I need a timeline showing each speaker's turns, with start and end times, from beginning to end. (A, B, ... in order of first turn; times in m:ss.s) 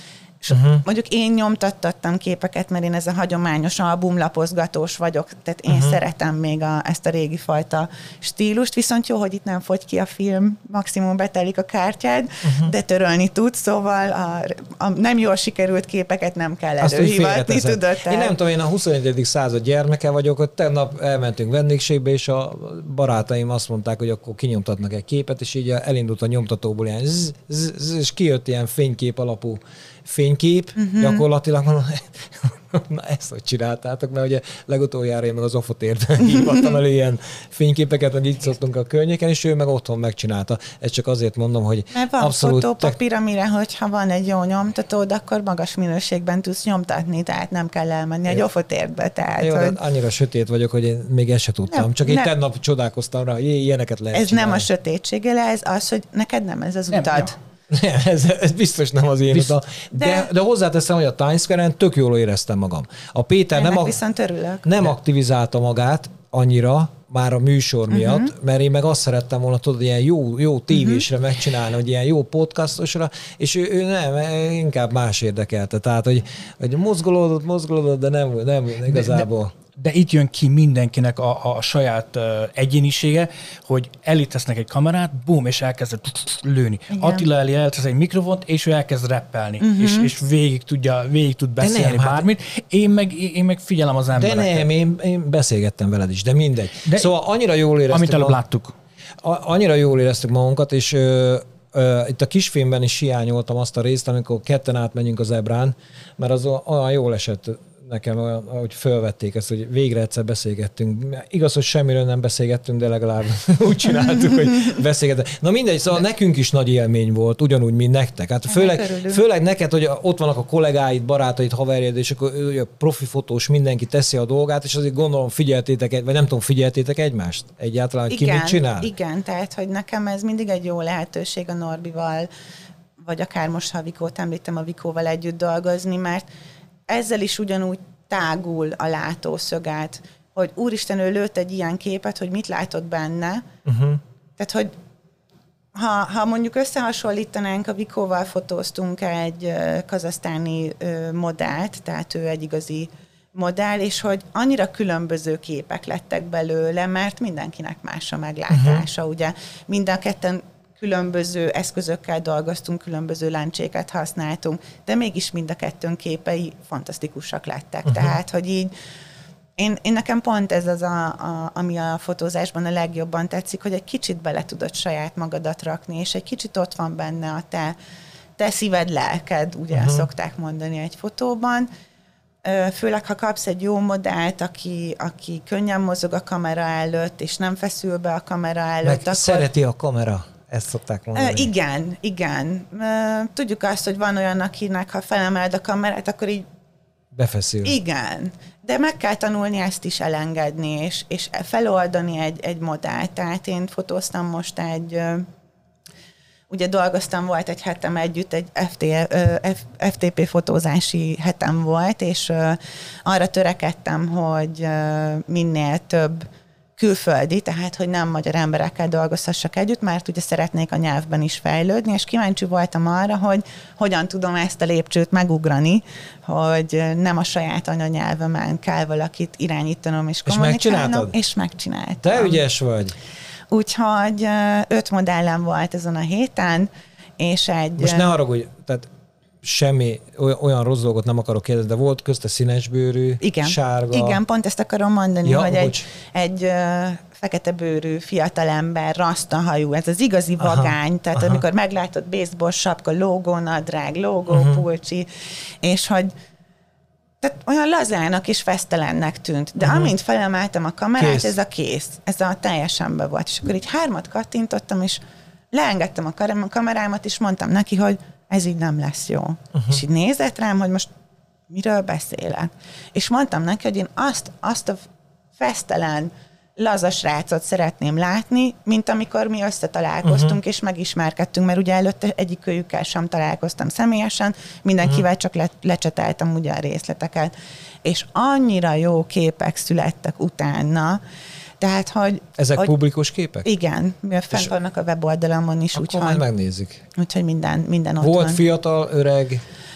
0:00.4-0:18.3 A
0:00.5-0:00.8 B
0:05.7-0:06.0 B
0:12.4-0:12.7 B
0:16.8-0:43.0 B
0:30.8-0:31.2 A
0:41.9-0:49.8 A
0:49.4-0:54.6 B
0:51.7-0:52.3 A
0:54.1-0:57.4 A
0:56.9-0:57.2 C
0:57.7-1:04.0 B
1:00.0-1:00.3 A
1:03.6-1:04.6 A
1:04.6-1:19.5 B
1:07.9-1:08.3 A
1:10.7-1:11.0 A
1:18.9-1:34.6 C
1:26.9-1:27.3 A
1:29.6-1:30.1 A
1:31.6-1:32.2 B
1:34.2-1:38.4 B
1:36.8-1:37.1 C
1:37.9-1:38.7 C
1:39.2-2:08.9 B
1:58.5-1:59.2 A
2:08.1-2:12.3 A
2:13.0-2:16.2 A
2:16.9-2:23.4 A
2:23.6-2:24.0 B
2:24.4-2:24.7 A
2:25.7-2:48.7 A
2:38.5-2:38.8 B
2:47.8-2:48.2 B
2:49.6-2:57.8 A
2:58.4-3:01.7 A
2:59.7-3:00.1 B
3:02.4-3:09.5 A
3:08.8-3:11.5 B
3:11.1-3:16.4 A
3:17.1-3:17.7 B
3:17.6-3:25.2 A
3:26.5-3:36.2 A
3:36.8-3:52.4 A
3:50.3-3:51.1 B
3:52.0-3:52.9 B
3:53.5-3:58.1 A
3:57.8-3:58.9 B
3:59.4-4:04.2 B
4:03.2-4:15.1 A
4:05.2-4:05.8 B
4:10.4-4:11.4 B
4:14.3-4:14.6 B
4:15.6-4:16.1 A
4:17.2-4:25.0 A
4:19.6-4:19.9 B
4:21.0-4:21.3 B
4:25.5-4:30.9 A
4:31.5-4:34.8 A
4:35.4-4:47.3 A
4:40.0-4:40.4 B
4:47.8-4:51.0 A
4:51.6-4:52.7 A
4:52.4-4:53.5 B
4:53.4-4:56.2 A
4:55.7-4:56.8 B
4:57.0-4:58.4 A
4:58.0-4:59.4 B